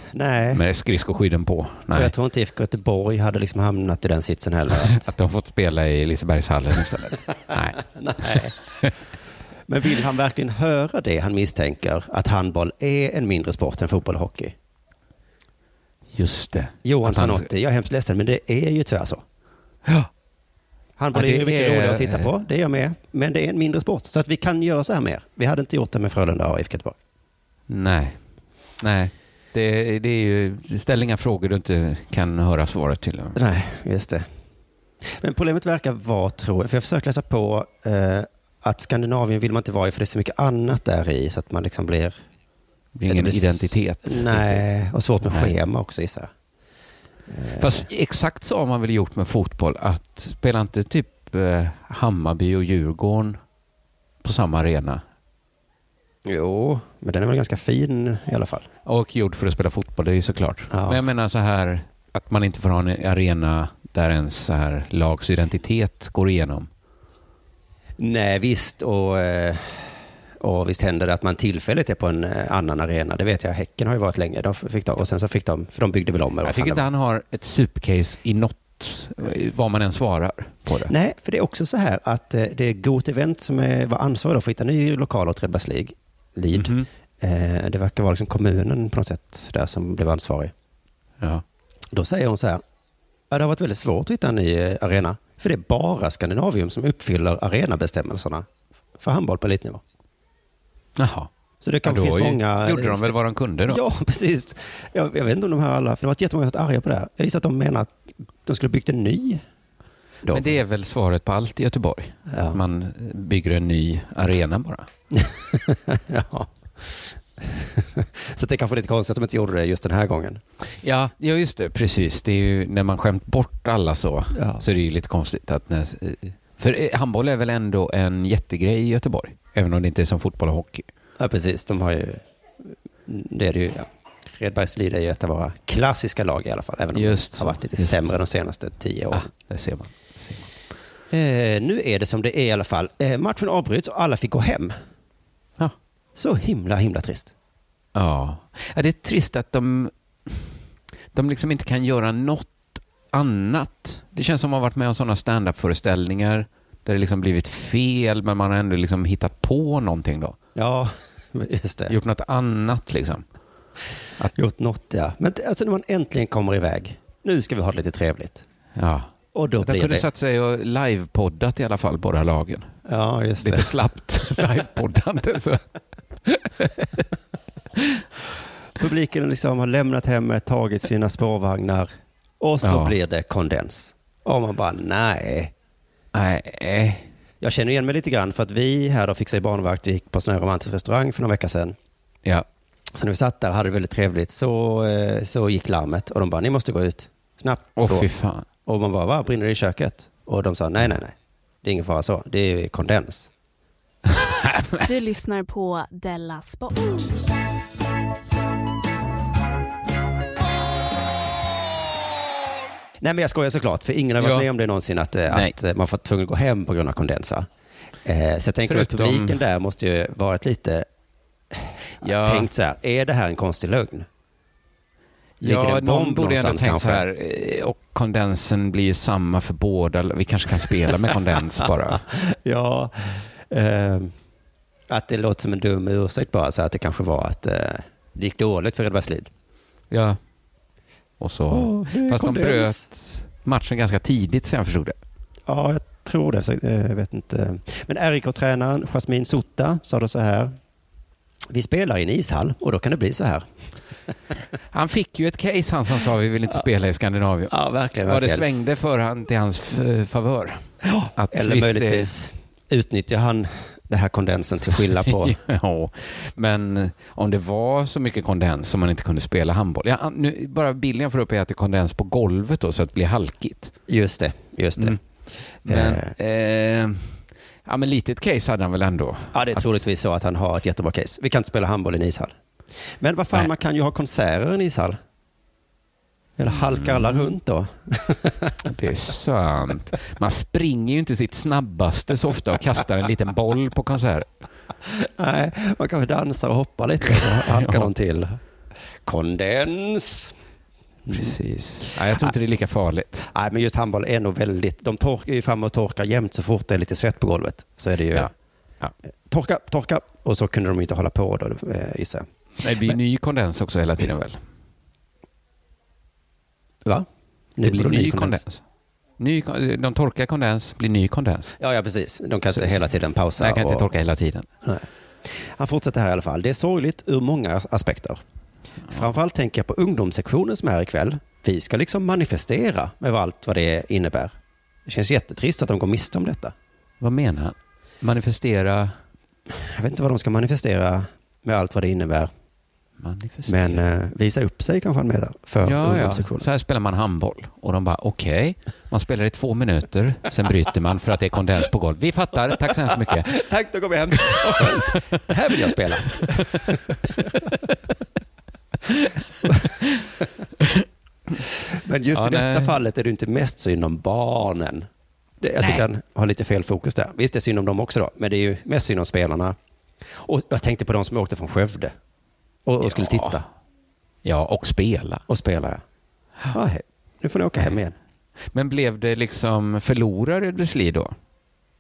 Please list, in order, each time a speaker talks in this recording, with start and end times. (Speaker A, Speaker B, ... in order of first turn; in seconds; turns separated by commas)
Speaker A: 0.1-0.6, Speaker B: 0.5-2.1, Speaker A: 1.9-5.1, Speaker B: 4.8-8.9, Speaker A: 7.5-8.6, Speaker A: 9.7-14.6, Speaker B: 16.2-17.5, Speaker A: 16.9-19.2, Speaker A: 21.0-27.0, Speaker B: 21.1-22.3, Speaker B: 27.7-28.2, Speaker B: 28.8-33.4, Speaker A: 33.4-34.3, Speaker A: 35.0-42.1, Speaker B: 43.0-44.6, Speaker A: 43.1-46.3, Speaker B: 45.3-45.5, Speaker A: 47.3-47.9, Speaker B: 47.6-53.4, Speaker B: 54.2-55.0, Speaker A: 56.2-58.7, Speaker B: 58.9-66.7, Speaker A: 60.7-61.0, Speaker A: 68.0-76.9, Speaker B: 76.4-80.9, Speaker A: 80.9-90.5, Speaker B: 86.5-86.9, Speaker A: 91.9-92.6, Speaker A: 93.3-98.5, Speaker A: 99.0-99.8, Speaker B: 101.0-101.3, Speaker A: 101.6-103.1, Speaker B: 101.8-103.8, Speaker A: 103.7-109.4, Speaker A: 110.2-110.6, Speaker B: 110.3-114.9, Speaker A: 112.3-112.6, Speaker A: 115.1-120.4, Speaker B: 120.8-130.9, Speaker A: 124.3-124.6, Speaker A: 131.2-139.3, Speaker B: 136.9-138.2, Speaker B: 139.1-140.5, Speaker A: 141.1-144.8, Speaker A: 146.2-147.3, Speaker B: 147.9-150.5, Speaker B: 151.1-160.4, Speaker A: 160.6-161.9, Speaker B: 161.9-163.2, Speaker A: 164.3-168.4, Speaker B: 168.8-172.7, Speaker A: 169.3-170.1, Speaker A: 172.9-173.7, Speaker B: 173.4-175.7, Speaker B: 176.2-177.1, Speaker B: 177.8-178.0, Speaker A: 178.8-185.5, Speaker B: 182.6-182.9, Speaker B: 186.1-187.1, Speaker A: 187.4-191.8, Speaker A: 192.9-198.1, Speaker B: 197.8-198.5, Speaker A: 198.7-203.3, Speaker B: 204.1-204.8, Speaker C: 204.8-207.2, Speaker A: 213.0-217.5, Speaker B: 214.2-214.5, Speaker B: 215.3-215.6, Speaker A: 218.0-220.9, Speaker B: 218.7-219.4, Speaker A: 221.5-224.1, Speaker B: 222.0-222.5, Speaker A: 225.4-227.1, Speaker B: 225.4-232.0, Speaker A: 231.1-234.1, Speaker A: 234.9-239.3, Speaker B: 239.9-240.2, Speaker B: 241.2-245.0, Speaker A: 241.5-242.8, Speaker A: 245.5-250.6, Speaker A: 251.5-253.6, Speaker B: 254.7-257.5, Speaker A: 257.5-258.5, Speaker B: 258.1-262.1, Speaker A: 260.8-265.4, Speaker B: 265.1-273.7, Speaker A: 273.9-275.0, Speaker B: 275.6-279.8, Speaker A: 275.7-276.1, Speaker A: 279.3-285.0, Speaker A: 286.4-288.6, Speaker B: 286.5-287.3, Speaker B: 288.6-294.3, Speaker A: 294.8-298.4, Speaker B: 297.1-297.9, Speaker A: 299.1-300.3, Speaker A: 301.1-301.4, Speaker B: 301.1-303.3, Speaker A: 303.3-308.3, Speaker B: 308.1-308.9, Speaker A: 309.3-312.3, Speaker B: 312.6-314.4, Speaker A: 316.9-318.4, Speaker B: 317.6-318.6, Speaker B: 319.2-321.5, Speaker A: 321.6-323.9, Speaker B: 322.5-322.8, Speaker B: 323.4-324.5, Speaker A: 324.6-328.2, Speaker A: 328.9-334.3, Speaker A: 334.9-336.6, Speaker B: 337.0-339.0, Speaker A: 339.5-342.3, Speaker B: 343.0-343.8, Speaker A: 343.5-346.5, Speaker B: 345.6-353.4, Speaker A: 352.6-357.5, Speaker B: 354.2-356.6, Speaker B: 358.9-360.1, Speaker A: 359.4-360.2, Speaker B: 360.6-360.9, Speaker A: 361.4-364.9, Speaker B: 362.1-362.8, Speaker A: 365.4-369.6, Speaker B: 365.6-365.9, Speaker A: 370.1-371.9, Speaker A: 372.7-373.4, Speaker B: 372.8-373.4, Speaker B: 374.2-375.2, Speaker A: 375.3-375.8, Speaker A: 376.5-377.9, Speaker B: 378.5-381.1